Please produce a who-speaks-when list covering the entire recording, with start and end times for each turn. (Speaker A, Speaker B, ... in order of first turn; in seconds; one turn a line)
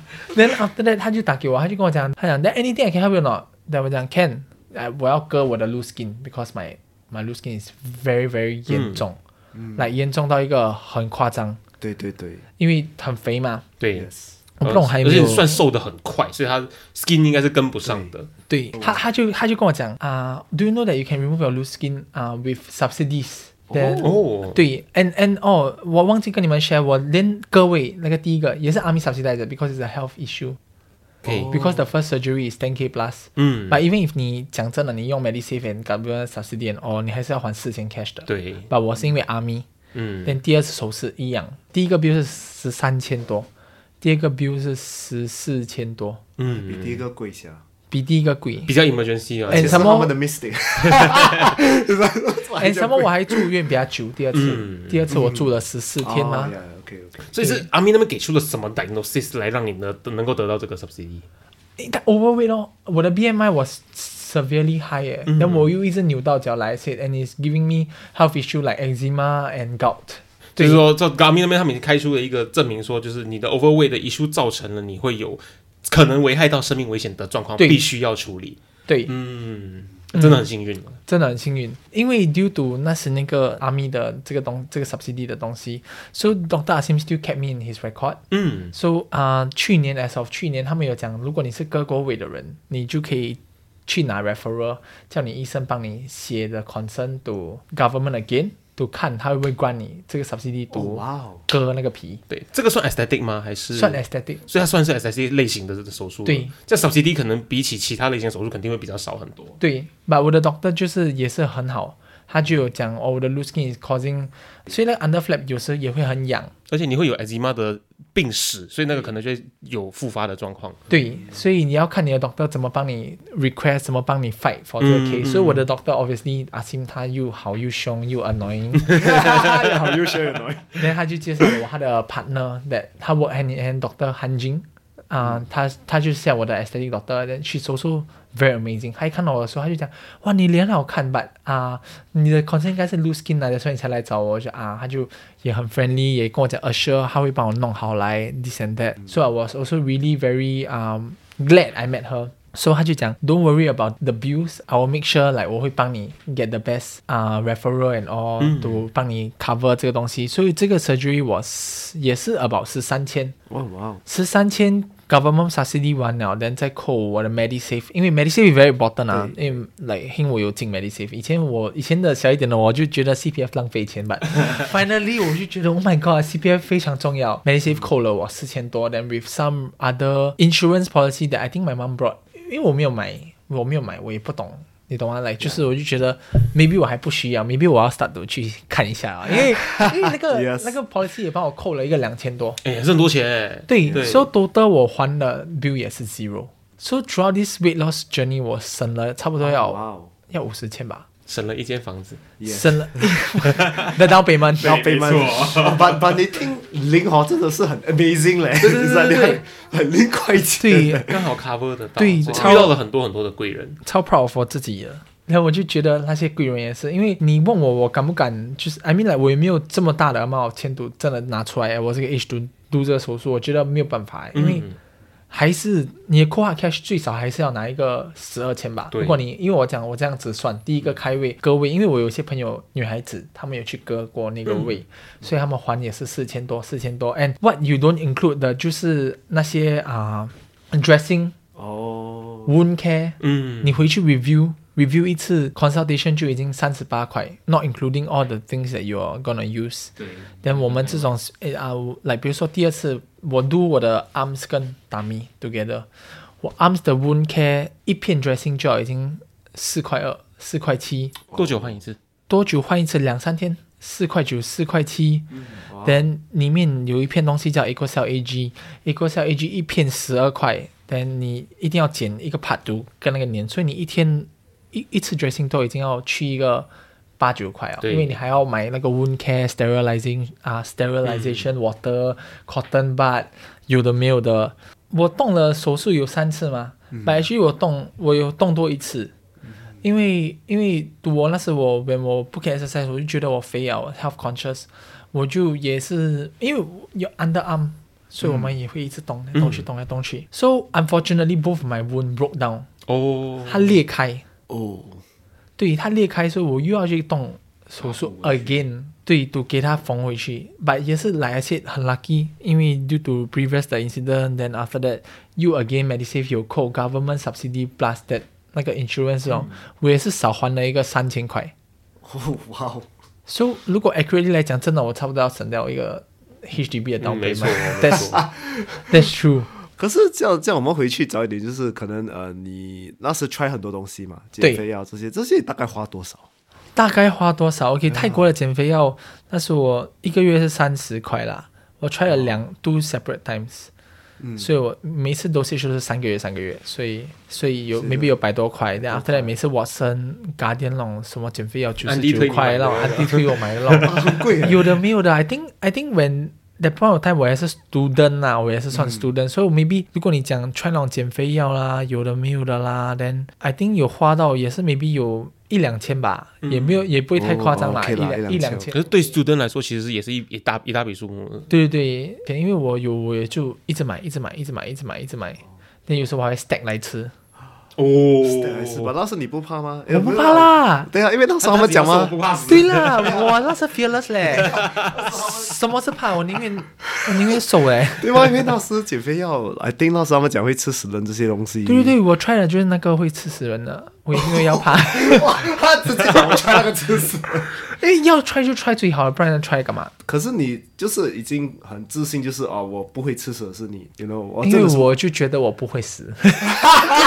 Speaker A: 0.3-9.2
Speaker B: 8.7-9.0
Speaker C: 9.5-9.8
Speaker A: 9.7-11.6
Speaker C: 11.8-12.4
Speaker A: 12.6-13.7
Speaker B: 13.8-14.1
Speaker C: 13.9-14.3
Speaker A: 14.6-15.6
Speaker B: 14.6-18.3
Speaker C: 17.8-18.1
Speaker A: 18.5-30.6
Speaker C: 23.7-24.0
Speaker B: 24.0-24.6
Speaker B: 31.2-31.6
Speaker C: 31.2-31.8
Speaker A: 31.5-39.6
Speaker B: 33.4-33.8
Speaker B: 38.3-38.7
Speaker B: 39.9-40.4
Speaker A: 40.2-43.5
Speaker A: 44.0-46.2
Speaker B: 46.4-47.0
Speaker C: 46.6-47.6
Speaker A: 47.9-48.7
Speaker B: 48.7-50.0
Speaker A: 49.5-50.1
Speaker C: 49.5-53.4
Speaker B: 50.8-51.5
Speaker A: 52.6-56.5
Speaker B: 54.3-55.0
Speaker C: 55.1-55.5
Speaker C: 56.0-57.2
Speaker B: 57.3-61.2
Speaker A: 57.4-57.7
Speaker A: 61.8-70.8
Speaker B: 65.3-65.7
Speaker B: 70.6-81.0
Speaker A: 77.6-77.9
Speaker A: 78.9-79.1
Speaker A: 80.1-80.4
Speaker A: 81.1-88.2
Speaker B: 88.3-88.7
Speaker A: 88.7-102.2
Speaker C: 100.7-101.4
Speaker B: 102.3-109.6
Speaker A: 103.7-104.4
Speaker A: 106.2-106.5
Speaker A: 109.6-116.5
Speaker B: 116.7-120.8
Speaker A: 120.9-129.1
Speaker B: 124.8-125.6
Speaker C: 128.9-131.4
Speaker A: 130.7-163.3
Speaker B: 158.4-158.8
Speaker C: 163.5-164.0
Speaker A: 164.1-192.6
Speaker C: 169.1-169.4
Speaker C: 189.3-190.8
Speaker B: 192.6-194.3
Speaker A: 193.7-201.1
Speaker C: 193.9-194.3
Speaker C: 199.4-200.1
Speaker B: 201.3-202.2
Speaker C: 202.4-203.1
Speaker A: 202.4-204.7
Speaker B: 203.5-203.9
Speaker B: 204.6-206.3
Speaker C: 204.6-211.2
Speaker B: 208.7-209.4
Speaker A: 210.6-211.1
Speaker B: 211.0-213.8
Speaker A: 212.0-212.7
Speaker C: 212.3-212.7
Speaker A: 213.8-224.7
Speaker B: 224.3-224.8
Speaker A: 225.3-241.3
Speaker B: 228.9-229.2
Speaker C: 241.6-242.5
Speaker A: 242.4-249.9
Speaker B: 243.2-243.8
Speaker B: 250.0-251.0
Speaker A: 250.4-261.1
Speaker C: 261.3-261.8
Speaker B: 261.3-262.0
Speaker A: 262.3-265.3
Speaker C: 265.3-266.0
Speaker A: 265.8-289.1
Speaker B: 277.8-278.1
Speaker B: 281.0-281.4
Speaker C: 286.9-287.2
Speaker A: 289.8-302.7
Speaker C: 298.2-298.5
Speaker B: 299.3-299.6
Speaker B: 302.9-303.7
Speaker A: 303.5-304.2
Speaker C: 304.5-305.0
Speaker A: 305.6-321.5
Speaker C: 307.8-308.6
Speaker C: 322.0-322.9
Speaker A: 323.3-328.2
Speaker B: 327.0-328.2
Speaker C: 328.0-328.8
Speaker A: 328.9-329.5
Speaker C: 329.7-336.3
Speaker A: 336.7-343.7
Speaker C: 337.9-338.2
Speaker C: 342.1-342.4
Speaker C: 344.2-344.5
Speaker A: 344.4-368.9
Speaker C: 347.8-348.1
Speaker C: 348.8-349.3
Speaker B: 351.8-354.0
Speaker C: 353.8-354.8
Speaker C: 358.7-359.1
Speaker B: 366.4-366.8
Speaker C: 367.1-368.7
Speaker B: 368.7-371.5
Speaker A: 371.5-377.1
Speaker B: 377.8-378.9
Speaker C: 378.2-382.2
Speaker A: 379.9-380.9
Speaker B: 381.4-383.3
Speaker A: 382.4-388.4
Speaker C: 383.0-383.3
Speaker C: 384.3-385.6
Speaker B: 384.4-385.0
Speaker C: 387.9-391.9
Speaker A: 391.6-395.5
Speaker C: 394.1-397.5
Speaker A: 397.7-399.9
Speaker C: 400.1-404.9
Speaker A: 404.4-406.6